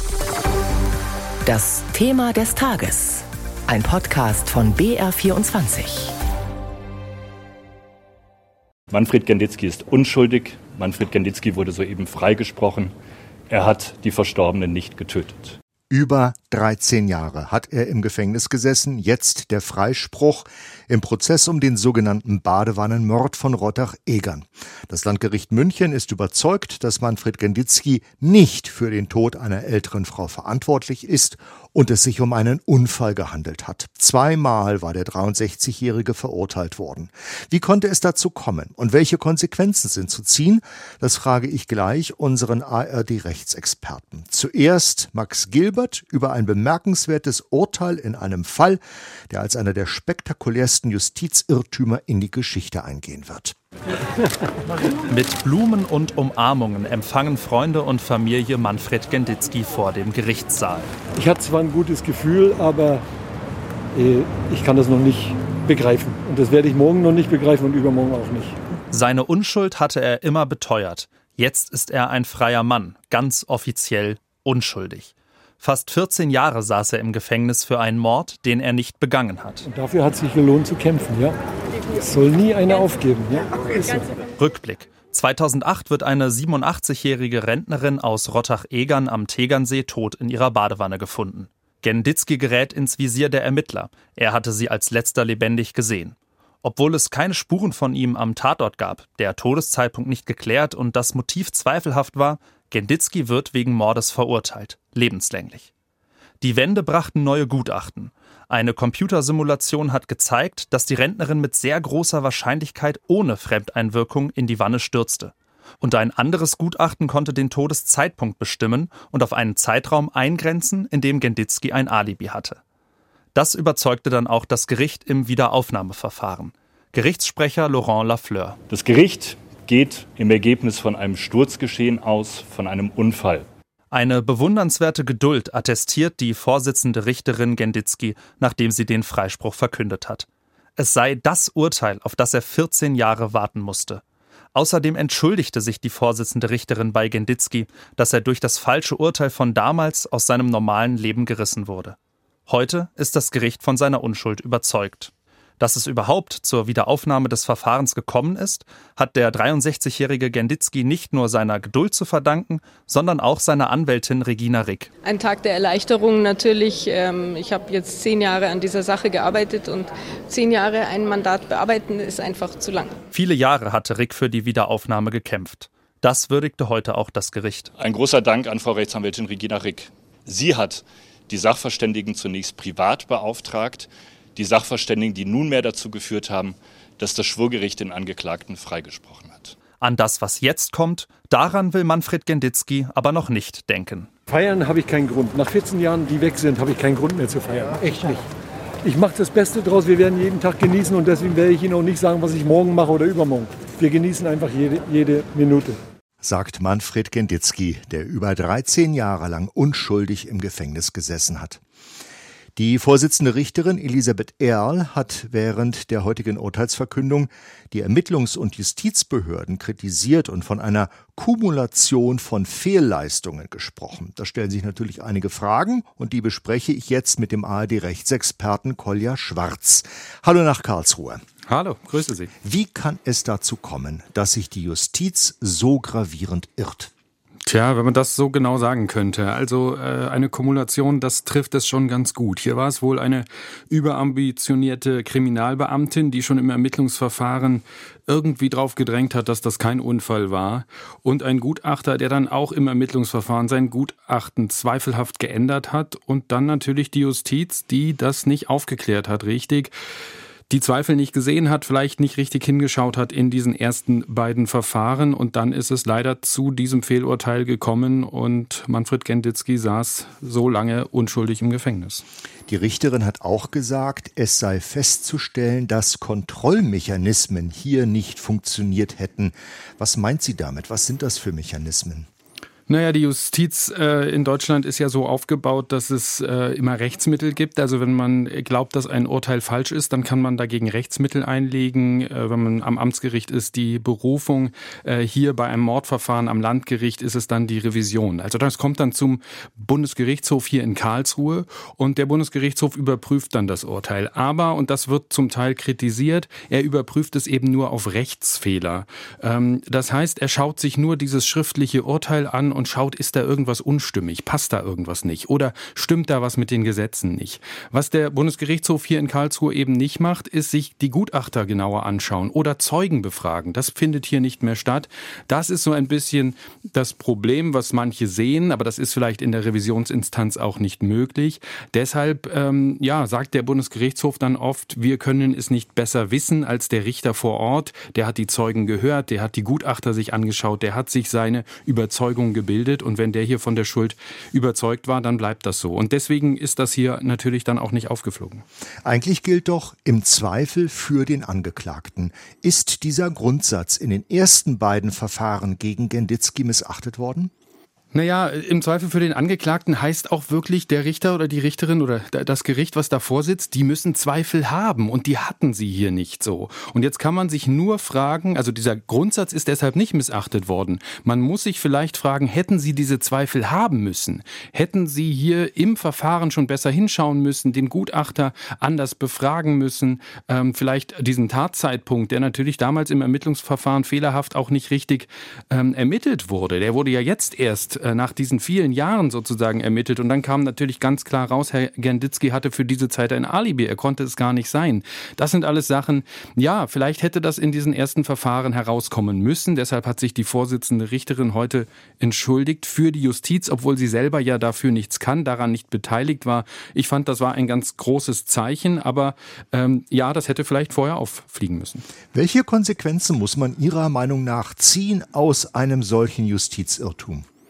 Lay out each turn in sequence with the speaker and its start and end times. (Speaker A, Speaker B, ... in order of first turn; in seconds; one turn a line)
Speaker A: 1.4-6.1
Speaker B: 8.9-12.9
Speaker B: 13.5-15.6
Speaker C: 15.9-53.5
Speaker D: 55.1-60.9
Speaker E: 61.1-63.0
Speaker E: 63.9-68.5
Speaker D: 68.9-79.7
Speaker E: 79.7-81.3
Speaker E: 82.0-84.0
Speaker D: 84.4-105.7
Speaker D: 106.4-122.6
Speaker D: 123.3-128.6
Speaker B: 128.7-133.5
Speaker D: 133.9-140.3
Speaker D: 140.8-144.0
Speaker D: 144.5-151.9
Speaker D: 152.5-164.9
Speaker F: 165.0-173.0
Speaker D: 173.1-177.7
Speaker B: 177.8-189.5
Speaker D: 189.8-194.1
Speaker E: 194.3-198.2
Speaker E: 198.8-205.8
Speaker C: 206.2-211.6
Speaker C: 212.6-231.2
Speaker G: 231.5-232.3
Speaker C: 232.4-236.9
Speaker G: 237.5-259.7
Speaker G: 260.5-272.0
Speaker C: 272.5-282.1
Speaker G: 282.7-348.4
Speaker C: 348.8-357.3
Speaker G: 357.9-411.8
Speaker C: 412.1-417.2